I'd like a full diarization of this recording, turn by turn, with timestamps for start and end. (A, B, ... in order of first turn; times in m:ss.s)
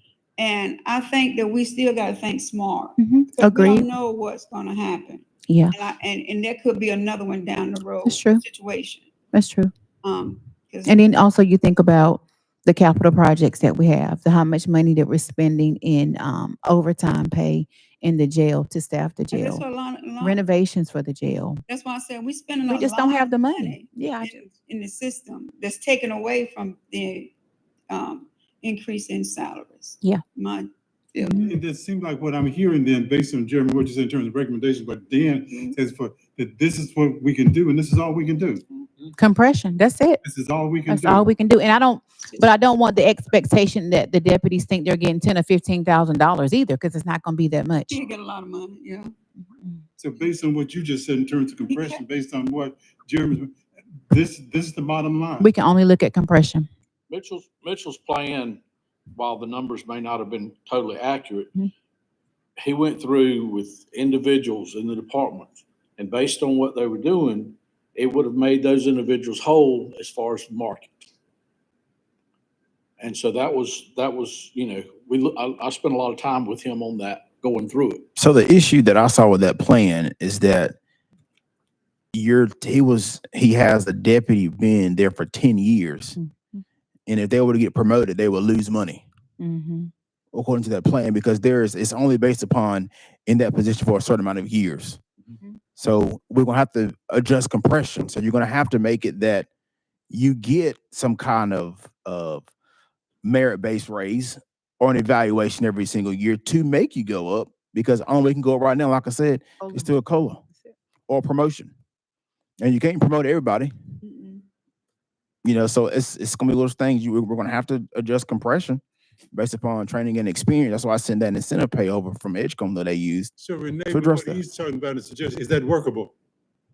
0:00.4-0:09.1 A
0:03.0-0:03.8 B
0:05.5-0:05.7 B
0:08.0-0:08.4 B
0:09.3-0:09.7 B
0:10.0-0:11.0 A
0:10.8-0:19.6 B
0:19.3-0:20.4 A
0:20.2-0:21.6 B
0:21.7-0:27.3 A
0:22.6-0:24.4 B
0:27.9-0:31.5 A
0:31.2-0:31.5 B
0:31.4-0:38.6 C
0:39.2-0:40.2 B
0:40.2-0:41.3 C
0:40.9-0:48.0 B
0:47.9-0:49.1 A
0:50.0-0:53.5 C
0:51.7-0:52.0 A
0:54.1-0:55.5 C
0:55.4-0:56.7 B
0:57.1-0:58.6 D
0:59.1-1:01.5 D
1:02.6-1:10.9 D
1:13.0-1:18.0 D
1:18.2-1:20.7 E
1:22.1-1:26.2 E
1:26.2-1:26.6 B
1:27.1-1:29.0 E
1:29.4-1:29.9 B
1:30.3-1:35.0 E
1:35.8-1:39.5 E
1:40.1-1:42.5 E
1:43.2-1:50.4 E
1:49.6-1:49.9 B
1:51.1-1:51.7 E
1:52.6-1:53.7 E
1:54.0-1:54.4 A
1:55.4-1:58.8 E
1:59.3-2:03.3 E
2:03.4-2:06.1 C
2:03.9-2:04.4 E